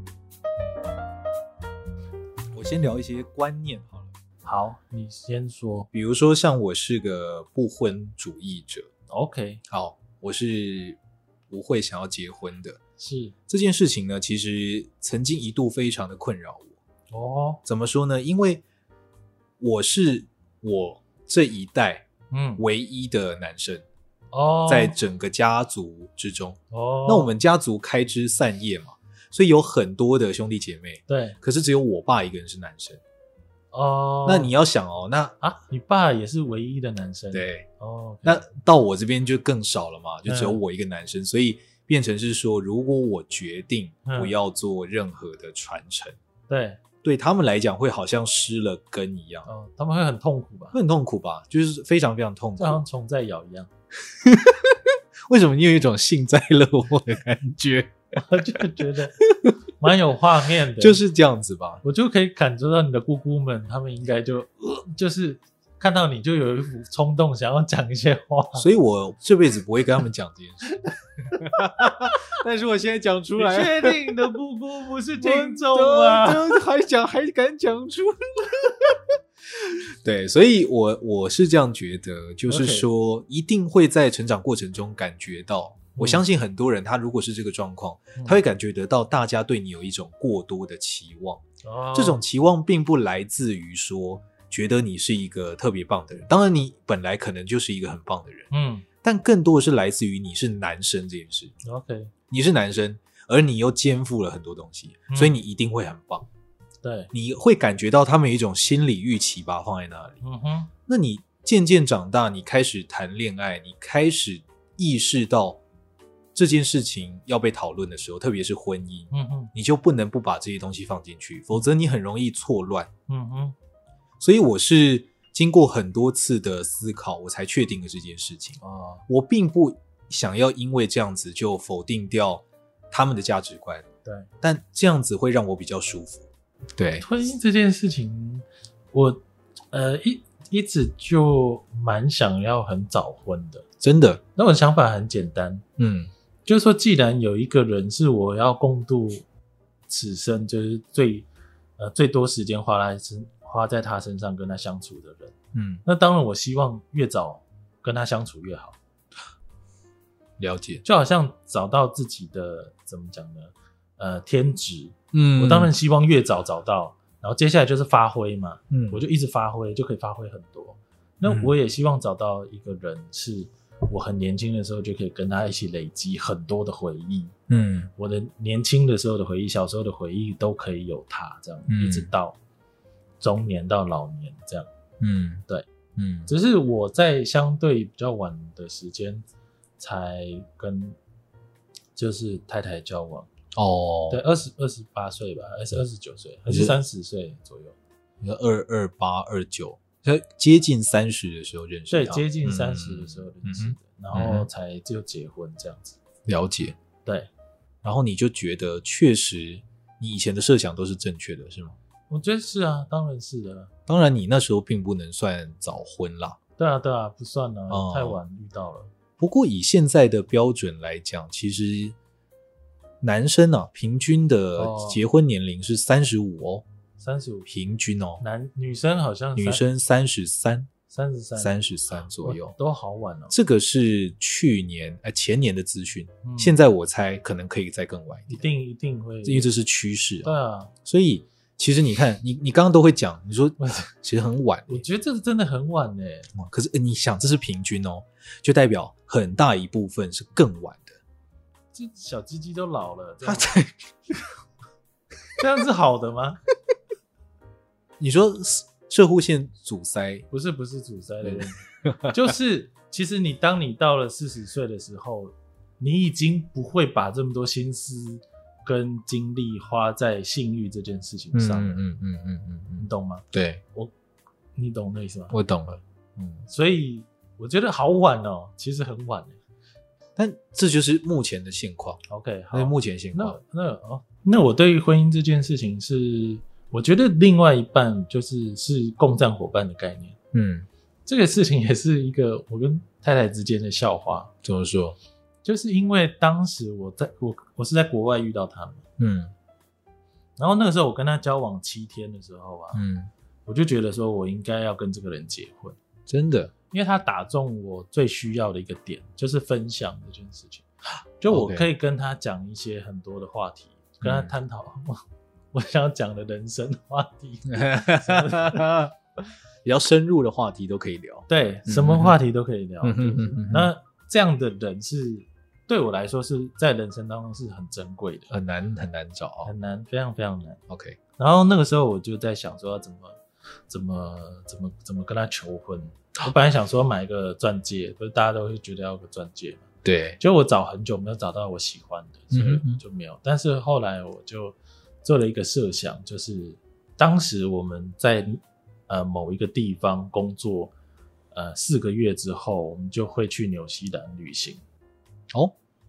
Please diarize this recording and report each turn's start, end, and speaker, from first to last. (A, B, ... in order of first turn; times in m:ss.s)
0:02.5-0:04.1 A
0:04.4-0:05.9 B
0:05.9-0:08.9 A
0:09.1-0:09.6 B
0:09.7-0:11.0 A
0:11.5-0:12.8 A
0:13.0-0:13.3 B
0:13.5-0:16.8 A
0:17.1-0:17.6 B
0:17.6-0:18.6 A
0:19.6-0:22.1 A
0:22.3-0:22.6 B
0:22.6-0:23.8 A
0:24.3-0:24.9 B
0:24.7-0:33.0 A
0:26.7-0:27.3 B
0:31.1-0:31.4 B
0:33.7-0:34.5 B
0:34.2-0:35.3 A
0:35.4-0:38.4 B
0:37.3-0:37.6 A
0:38.2-0:46.2 A
0:40.2-0:40.6 B
0:44.0-0:44.3 B
0:46.5-0:46.8 B
0:47.0-0:49.5 A
0:49.4-0:50.8 B
0:50.7-0:52.8 A
0:52.6-0:53.7 B
0:54.1-0:58.6 A
0:58.1-0:59.2 B
0:59.2-0:59.5 A
0:59.8-1:01.0 B
1:00.8-1:01.8 A
1:01.8-1:08.7 B
1:08.5-1:10.7 A
1:11.4-1:14.1 A
1:13.4-1:16.5 B
1:15.2-1:19.0 A
1:20.0-1:31.4 A
1:22.5-1:22.9 B
1:26.0-1:26.2 B
1:31.6-1:32.2 B
1:31.9-1:38.5 A
1:38.5-1:38.9 B
1:39.0-1:41.5 A
1:41.6-1:42.1 B
1:42.3-1:46.3 A
1:45.1-1:45.4 B
1:46.8-1:47.1 B
1:47.1-1:50.2 A
1:50.2-1:50.7 B
1:50.9-1:55.6 A
1:56.3-2:02.9 A
1:59.1-1:59.5 B
2:03.1-2:03.5 B
2:04.2-2:13.8 A
2:08.6-2:09.0 B
2:14.4-2:17.0 A
2:17.0-2:23.6 B
2:23.8-2:24.2 A
2:24.4-2:25.6 B
2:25.8-2:26.1 A
2:26.4-2:29.2 B
2:29.9-2:38.8 B
2:35.5-2:35.8 A
2:40.4-2:40.8 A
2:40.8-2:57.3 B
2:45.1-2:45.7 A
2:48.7-2:49.0 A
2:51.2-2:51.5 A
2:57.5-2:57.9 A
2:58.0-3:02.4 B
3:01.7-3:02.1 A
3:03.2-3:04.7 B
3:05.0-3:05.4 A
3:06.0-3:06.3 A
3:06.3-3:09.2 B
3:09.8-3:11.0 B
3:12.0-3:13.3 B
3:13.5-3:14.2 A
3:14.1-3:17.8 B
3:16.5-3:16.7 A
3:18.2-3:24.5 A
3:21.9-3:26.0 B
3:26.2-3:26.8 A
3:27.8-3:31.8 A
3:32.1-3:33.7 B
3:33.9-3:36.4 A
3:36.6-3:38.9 B
3:37.7-3:38.2 A
3:39.2-3:41.9 A
3:43.0-3:46.6 A
3:44.6-3:45.0 B
3:47.0-3:47.5 B
3:47.5-3:48.2 A
3:48.2-3:49.6 B
3:49.4-3:50.7 A
3:50.9-3:53.3 B
3:51.4-3:52.6 A
3:53.3-3:58.4 A
3:56.2-3:56.6 B
3:58.3-3:59.5 B
3:59.2-4:00.3 A
4:00.2-4:00.7 B
4:00.8-4:04.8 A
4:03.6-4:03.9 B
4:04.7-4:06.3 B
4:06.3-4:11.0 A
4:11.7-4:13.6 B
4:13.2-4:14.3 A
4:15.4-4:16.4 B
4:18.0-4:20.2 A
4:20.3-4:31.8 B
4:21.2-4:22.3 A
4:31.3-4:33.6 A
4:32.8-4:33.9 B
4:34.6-4:35.4 B
4:35.3-4:36.5 A
4:36.5-4:39.4 B
4:40.2-4:42.0 A
4:42.1-4:50.2 B
4:42.5-4:43.4 A
4:50.3-4:50.7 A
4:51.0-4:54.3 B
4:54.4-4:55.0 A
4:55.4-4:58.8 B
4:59.0-4:59.3 A
5:00.4-5:02.8 B
5:02.7-5:03.1 A
5:03.4-5:05.8 B
5:06.1-5:06.5 A
5:06.7-5:10.6 B
5:11.2-5:15.0 B
5:11.3-5:11.7 A
5:14.0-5:14.3 A
5:15.5-5:18.8 B
5:17.8-5:18.9 A
5:19.6-5:22.2 A
5:21.3-5:28.3 B
5:22.8-5:23.7 A
5:28.3-5:29.5 A
5:29.4-5:30.6 B
5:30.7-5:31.0 A
5:31.2-5:33.2 B
5:33.7-5:39.6 B
5:39.8-5:40.2 A
5:40.2-5:50.7 B
5:42.3-5:42.8 A
5:51.3-5:54.6 B